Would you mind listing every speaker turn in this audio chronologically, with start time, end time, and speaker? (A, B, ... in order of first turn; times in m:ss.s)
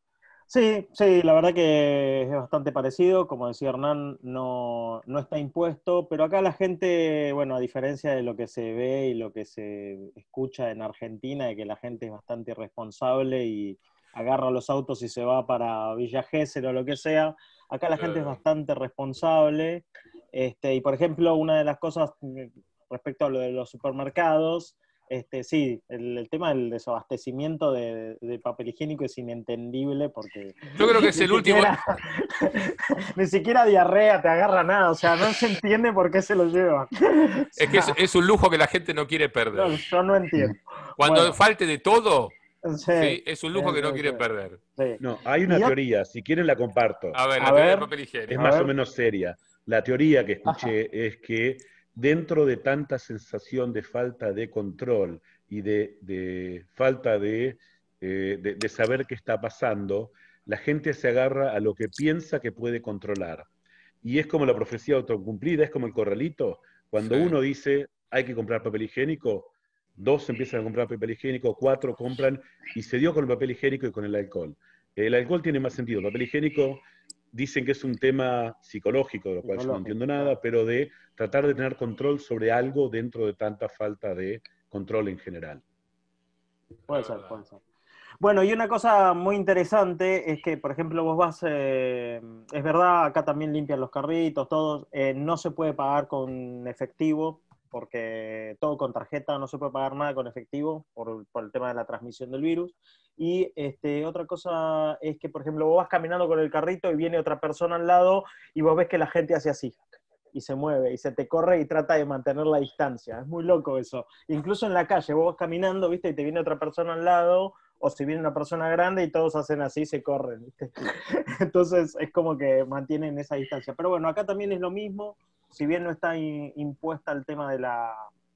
0:00.5-0:38.0 A
0:17.9-0:18.4 B
0:30.8-0:31.8 B
0:37.6-0:39.8 B
0:39.5-0:41.4 A
0:41.0-0:42.4 B
0:42.6-0:44.2 A
0:43.0-0:44.6 B
0:44.8-0:45.7 A
0:45.0-0:47.2 C
0:47.1-0:48.6 B
0:47.4-0:48.7 A
0:48.3-1:03.5 C
1:04.0-1:25.6 C
1:07.0-1:07.4 B
1:19.4-1:20.4 A
1:26.9-1:27.4 B
1:26.9-1:27.6 A
1:28.2-2:08.1 A